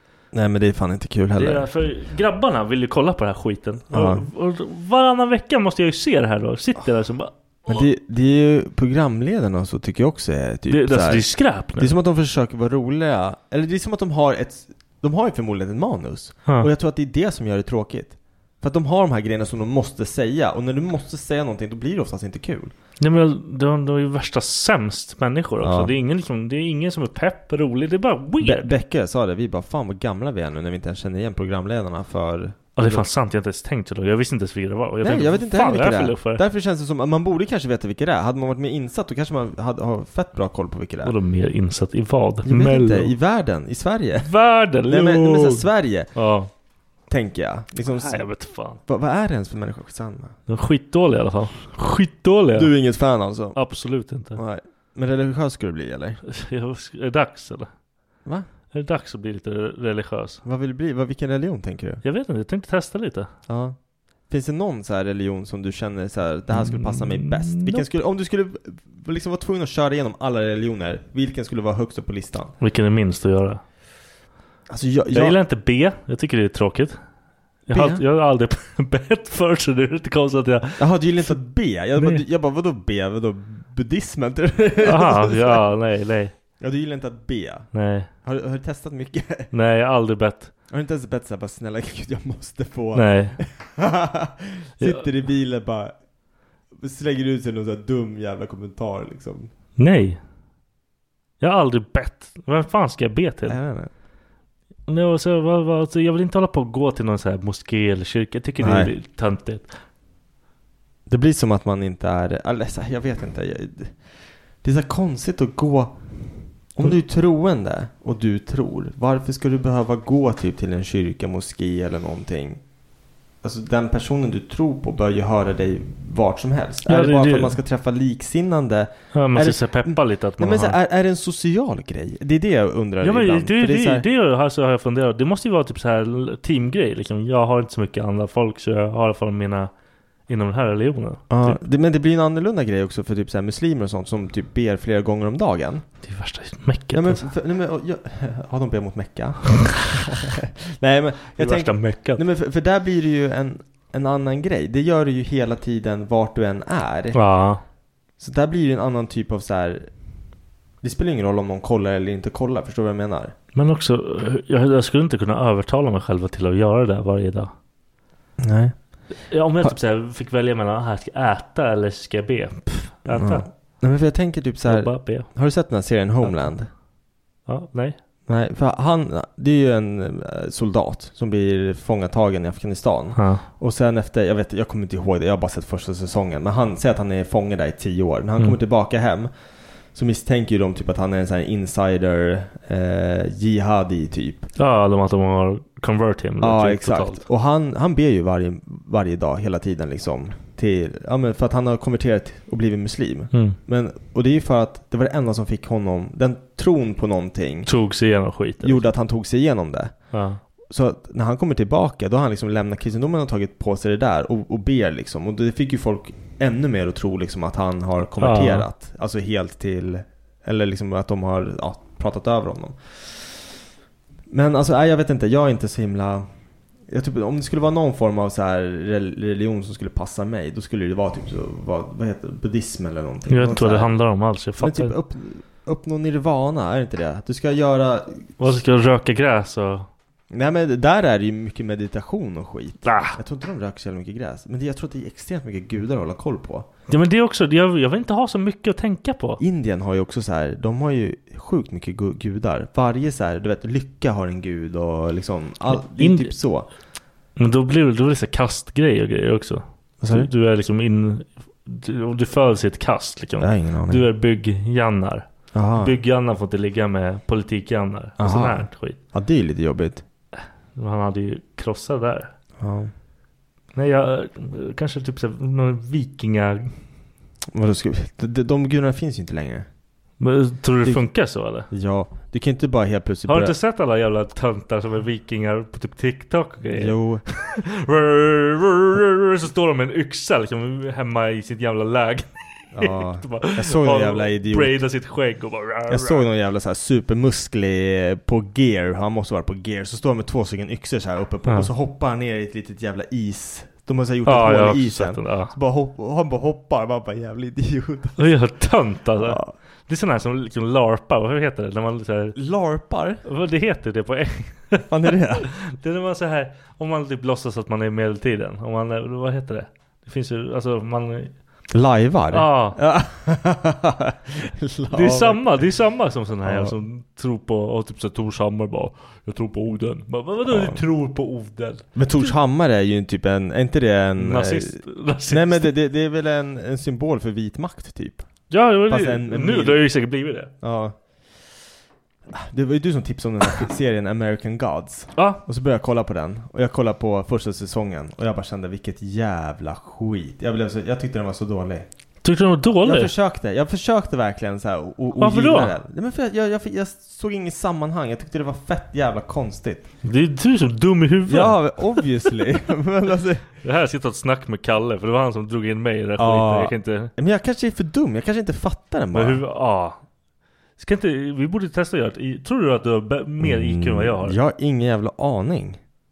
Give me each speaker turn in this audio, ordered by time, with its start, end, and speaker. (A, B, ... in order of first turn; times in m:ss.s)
0:00.3-0:01.7 A
0:01.4-0:07.3 B
0:03.9-0:04.3 A
0:07.7-0:22.7 A
0:10.7-0:11.9 B
0:23.0-0:28.7 B
0:25.6-0:25.9 A
0:28.4-0:33.0 A
0:32.8-0:36.4 B
0:35.0-0:41.2 A
0:41.0-0:43.1 B
0:42.4-0:44.3 A
0:44.2-0:46.5 B
0:44.9-0:46.1 A
0:47.1-0:48.3 A
0:47.8-0:48.8 B
0:48.8-0:50.4 A
0:50.5-0:52.7 B
0:52.6-0:53.6 A
0:53.6-0:54.4 B
0:54.3-0:56.2 A
0:56.3-0:57.7 B
0:58.7-1:00.4 B
1:00.4-1:02.0 A
1:02.0-1:03.3 B
1:03.5-1:03.8 A
1:04.3-1:12.6 A
1:06.5-1:07.8 B
1:12.6-1:13.6 B
1:14.7-1:15.4 A
1:15.1-1:17.0 B
1:17.7-1:21.4 B
1:17.7-1:18.0 A
1:20.8-1:25.6 A
1:22.0-1:22.2 B
1:24.8-1:26.3 B
1:26.6-1:29.5 A
1:27.7-1:28.1 B
1:29.5-1:30.5 B
1:30.7-1:36.0 A
1:32.9-1:33.4 B
1:34.8-1:35.1 B
1:36.7-1:39.5 A
1:39.8-1:40.2 B
1:41.4-1:43.6 B
1:43.5-1:43.9 A
1:44.9-1:49.8 B
1:48.6-1:48.9 A
1:51.1-1:54.0 A
1:54.6-1:56.0 A
1:56.7-2:02.6 A
2:03.4-2:14.0 A
2:06.9-2:07.6 B
2:09.1-2:10.8 B
2:13.0-2:19.7 B
2:20.3-2:21.6 B
2:21.3-2:25.9 A
2:26.0-2:27.3 B
2:26.9-2:37.2 A
2:31.4-2:32.2 B
2:37.1-2:37.6 B
2:38.2-2:39.9 A
2:40.8-2:43.4 A
2:43.6-2:47.5 B
2:48.4-2:48.8 A
2:49.3-2:53.5 B
2:53.1-2:56.7 A
2:54.7-2:55.4 B
2:56.2-2:56.5 B
2:57.5-2:58.0 B
2:58.3-3:09.3 A
3:03.2-3:03.4 B
3:09.9-3:14.5 A
3:14.6-3:17.2 B
3:16.4-3:27.7 A
3:23.3-3:23.6 B
3:27.7-3:28.9 B
3:28.6-3:30.0 A
3:30.1-3:30.4 B
3:30.7-3:43.3 A
3:38.2-3:38.7 B
3:44.3-3:46.3 A
3:46.9-3:54.0 A
3:53.3-3:55.0 B
3:54.6-3:58.5 A
3:58.4-3:59.9 B
4:00.3-4:06.7 A
4:02.8-4:03.2 B
4:06.9-4:09.4 B
4:09.4-4:16.7 A
4:15.7-4:16.3 B
4:17.4-4:29.0 B
4:20.0-4:20.3 A
4:23.4-4:24.1 A
4:25.5-4:26.0 A
4:28.2-4:30.0 A
4:30.4-4:32.3 B
4:32.6-4:32.9 A
4:33.7-4:36.7 B
4:37.5-4:39.7 A
4:40.2-4:41.7 B
4:41.7-4:43.6 A
4:43.3-4:52.3 B
4:46.7-4:47.2 A
4:52.7-4:54.8 A
4:52.8-4:56.2 B
4:55.9-5:08.4 A
5:01.4-5:01.7 B
5:04.2-5:05.5 B
5:08.2-5:12.4 B
5:09.2-5:09.6 A
5:12.4-5:13.2 A
5:13.2-5:21.3 B
5:14.9-5:15.5 A
5:21.7-5:25.7 A
5:22.3-5:22.8 B
5:24.9-5:32.3 B
5:26.4-5:26.8 A
5:30.4-5:30.8 A
5:32.0-5:38.3 A
5:34.2-5:35.7 B
5:38.5-5:40.5 B
5:38.9-5:39.8 A
5:40.6-5:41.0 A
5:42.3-5:51.9 A
5:45.2-5:45.4 B
5:52.2-5:53.1 B
5:52.8-5:59.9 A
5:55.2-5:55.7 B
6:00.0-6:02.0 B
6:01.3-6:03.5 A
6:03.6-6:07.1 B
6:06.2-6:09.4 A
6:09.1-6:10.0 B
6:10.8-6:14.4 B
6:13.4-6:15.8 A